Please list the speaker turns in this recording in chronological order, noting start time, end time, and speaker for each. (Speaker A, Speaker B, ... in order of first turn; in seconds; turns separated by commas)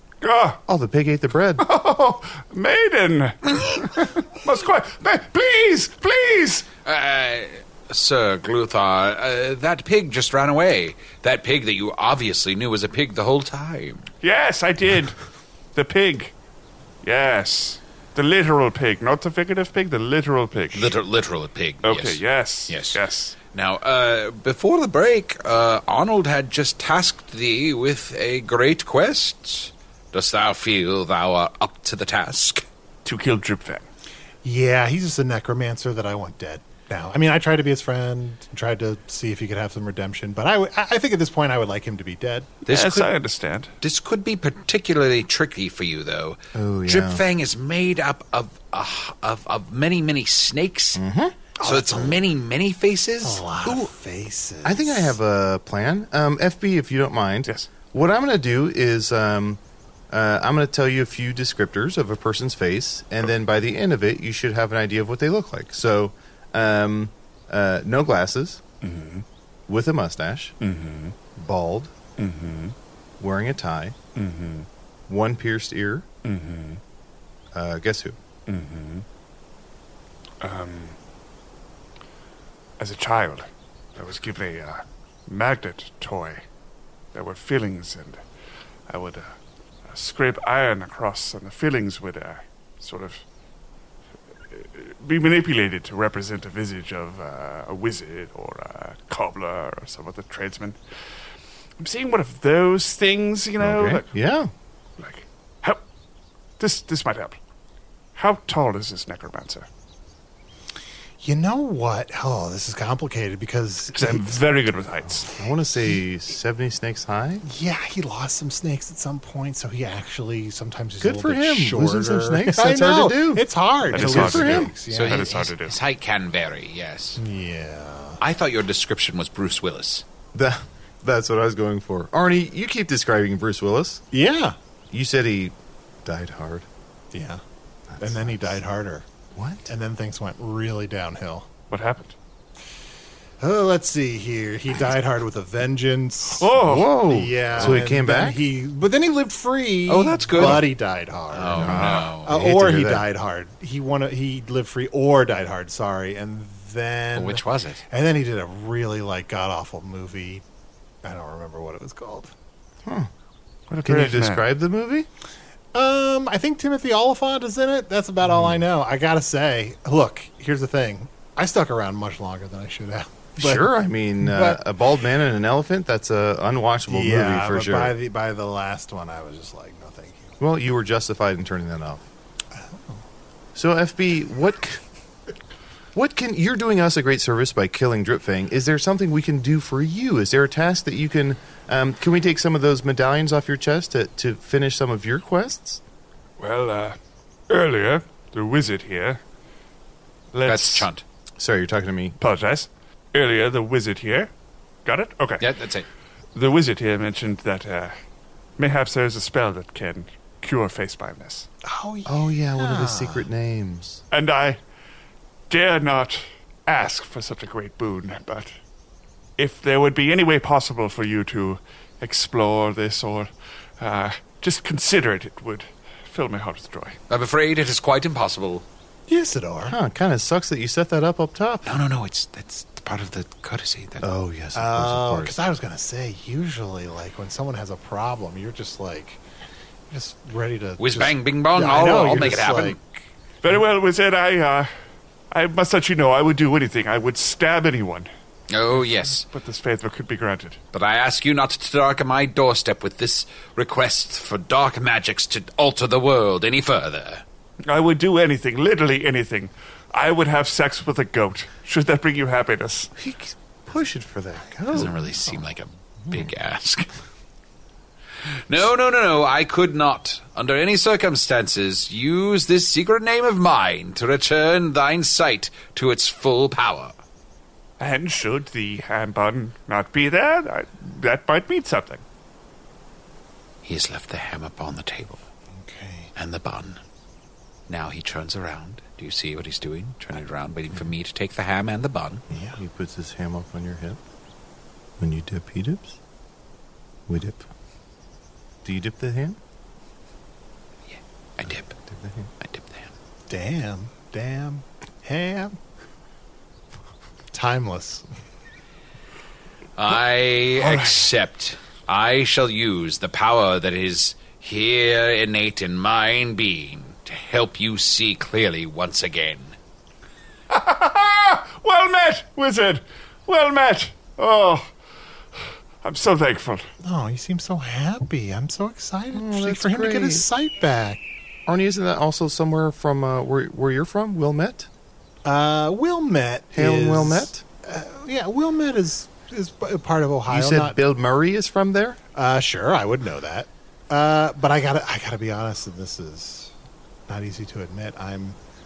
Speaker A: 0.2-0.6, Speaker B: 0.7-1.6, Speaker A: 1.6-6.7, Speaker C: 6.8-14.1, Speaker A: 14.2-15.2, Speaker A: 15.8-16.3, Speaker A: 17.0-20.9, Speaker C: 20.7-23.0, Speaker A: 21.8-23.4, Speaker C: 23.5-32.6, Speaker A: 33.0-33.9, Speaker D: 34.4-42.7, Speaker C: 42.7-43.1, Speaker A: 42.7-43.7, Speaker C: 43.8-51.0, Speaker B: 46.5-47.2, Speaker B: 51.0-51.4, Speaker D: 51.6-52.2, Speaker C: 51.6-53.8, Speaker D: 53.2-55.2, Speaker B: 54.6-68.6, Speaker A: 68.8-69.2, Speaker B: 69.7-70.5, Speaker A: 70.6-71.2, Speaker B: 71.4-71.9, Speaker A: 72.2-72.8, Speaker B: 73.2-74.0, Speaker A: 74.2-74.7, Speaker B: 75.1-76.1, Speaker A: 76.2-76.8, Speaker B: 77.5-78.2, Speaker A: 78.5-79.0, Speaker A: 80.4-81.0, Speaker A: 82.8-86.4, Speaker A: 87.1-88.2, Speaker A: 88.9-89.3, Speaker A: 89.9-93.2, Speaker A: 94.5-100.8, Speaker A: 101.8-104.1, Speaker B: 103.6-104.5, Speaker A: 105.0-105.8, Speaker A: 106.6-107.4, Speaker A: 108.2-109.7, Speaker D: 111.2-114.3, Speaker A: 113.9-115.3, Speaker B: 115.1-117.5, Speaker D: 117.4-125.5, Speaker B: 121.0-124.7, Speaker A: 123.9-125.8, Speaker C: 124.9-127.2, Speaker D: 127.2-128.2, Speaker C: 128.2-130.0, Speaker B: 130.3-134.0, Speaker D: 134.1-134.6, Speaker B: 134.9-136.7, Speaker D: 137.1-137.4, Speaker B: 137.9-138.3, Speaker D: 138.0-139.1, Speaker B: 139.4-139.7, Speaker D: 139.7-141.5, Speaker A: 141.7-142.2, Speaker D: 143.4-146.5, Speaker A: 146.3-147.1, Speaker B: 146.6-148.4, Speaker D: 147.1-160.4, Speaker C: 149.9-150.7, Speaker B: 150.4-150.6, Speaker C: 151.3-152.3, Speaker B: 151.6-153.1, Speaker A: 151.6-152.1, Speaker C: 157.2-157.8, Speaker D: 161.0-162.3, Speaker B: 162.8-163.1, Speaker A: 163.7-164.4, Speaker B: 163.8-165.1, Speaker D: 165.7-174.6, Speaker B: 168.2-168.6, Speaker B: 173.4-178.0, Speaker D: 176.9-180.4, Speaker B: 180.4-182.1, Speaker D: 182.5-183.1, Speaker B: 183.6-184.8, Speaker B: 185.9-195.8, Speaker A: 196.4-197.0, Speaker A: 197.5-199.2, Speaker A: 200.3-200.9, Speaker C: 200.5-201.0, Speaker B: 201.4-202.2, Speaker A: 202.2-204.3, Speaker A: 204.8-205.5, Speaker C: 205.4-205.9, Speaker A: 206.3-207.9, Speaker A: 208.6-211.5, Speaker D: 211.6-213.3, Speaker B: 212.1-214.0, Speaker A: 214.1-214.6, Speaker A: 215.5-218.6, Speaker A: 219.4-227.0, Speaker C: 227.1-228.7, Speaker D: 229.1-229.8, Speaker B: 229.7-231.7, Speaker C: 231.7-234.1, Speaker B: 234.0-235.3, Speaker D: 234.5-239.2, Speaker D: 239.9-243.1, Speaker C: 240.8-242.8, Speaker A: 243.4-244.7, Speaker A: 245.3-248.1, Speaker C: 248.5-249.3, Speaker A: 248.7-250.6, Speaker C: 250.7-257.2, Speaker A: 257.7-262.9, Speaker B: 263.0-264.9, Speaker D: 264.5-265.4, Speaker C: 264.7-266.9, Speaker C: 268.5-277.0, Speaker A: 277.8-282.0, Speaker C: 283.6-285.2, Speaker D: 285.5-286.1, Speaker C: 286.1-286.8, Speaker C: 287.7-292.2, Speaker D: 292.3-292.6, Speaker B: 292.5-294.0, Speaker B: 295.0-296.0, Speaker B: 297.1-297.4, Speaker B: 298.6-299.4, Speaker C: 300.9-301.8, Speaker B: 301.5-302.3, Speaker C: 302.4-302.9, Speaker D: 303.3-305.6, Speaker D: 307.3-308.1, Speaker C: 309.8-319.6, Speaker A: 310.6-311.1, Speaker A: 320.5-324.7, Speaker A: 325.8-326.7, Speaker D: 326.8-331.0, Speaker B: 329.1-330.2, Speaker B: 331.5-334.7, Speaker D: 335.2-340.8, Speaker B: 336.6-337.4, Speaker B: 340.3-342.0, Speaker D: 342.1-346.5, Speaker D: 347.1-348.4